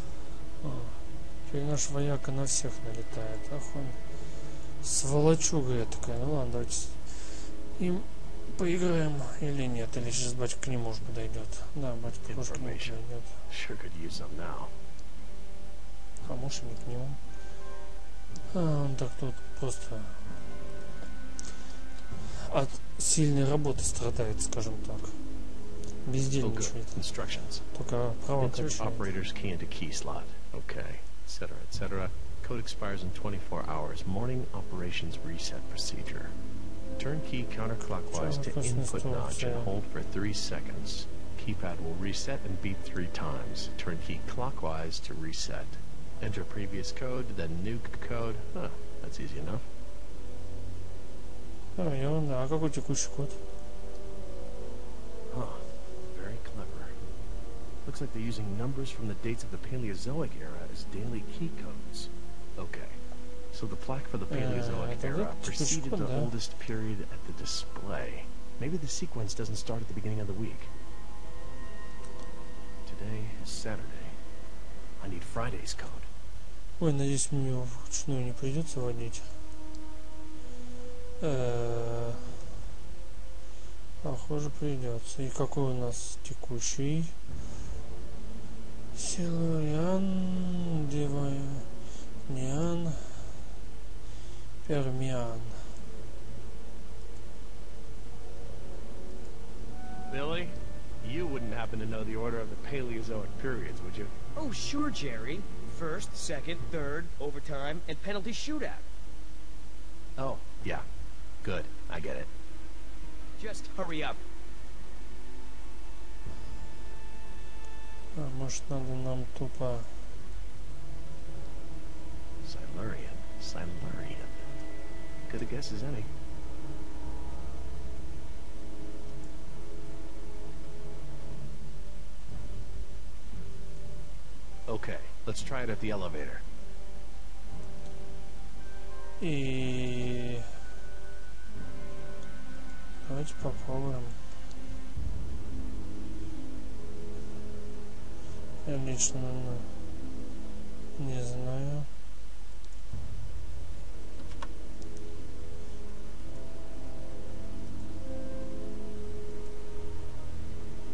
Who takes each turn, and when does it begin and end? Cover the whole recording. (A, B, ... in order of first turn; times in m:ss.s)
0:00.6-0:04.0 A
0:04.8-0:13.4 A
0:12.3-0:14.7 B
0:16.2-0:17.2 A
0:18.5-0:20.3 A
0:22.3-0:25.2 A
0:26.0-0:27.1 A
0:26.4-0:27.6 B
0:27.7-0:29.1 A
0:28.4-0:36.3 B
0:37.0-0:49.6 B
0:38.1-0:39.7 A
0:51.8-0:53.4 A
0:55.3-0:56.9 B
0:57.8-1:03.0 B
1:03.5-1:10.7 B
1:04.3-1:06.3 A
1:12.8-1:14.2 B
1:15.0-1:16.1 B
1:16.8-1:19.3 A
1:21.2-1:22.3 A
1:24.0-1:27.2 A
1:28.9-1:31.7 A
1:32.2-1:33.4 A
1:34.6-1:35.6 A
1:40.1-1:44.1 B
1:44.4-1:48.8 C
1:50.2-1:50.8 B
1:51.4-1:52.3 B
1:53.4-1:54.2 C
1:58.1-2:00.0 A
2:02.4-2:04.5 B
2:05.3-2:06.1 B
2:14.7-2:16.4 B
2:19.2-2:20.5 A
2:23.0-2:24.2 A
2:28.6-2:29.7 A
2:31.0-2:31.9 A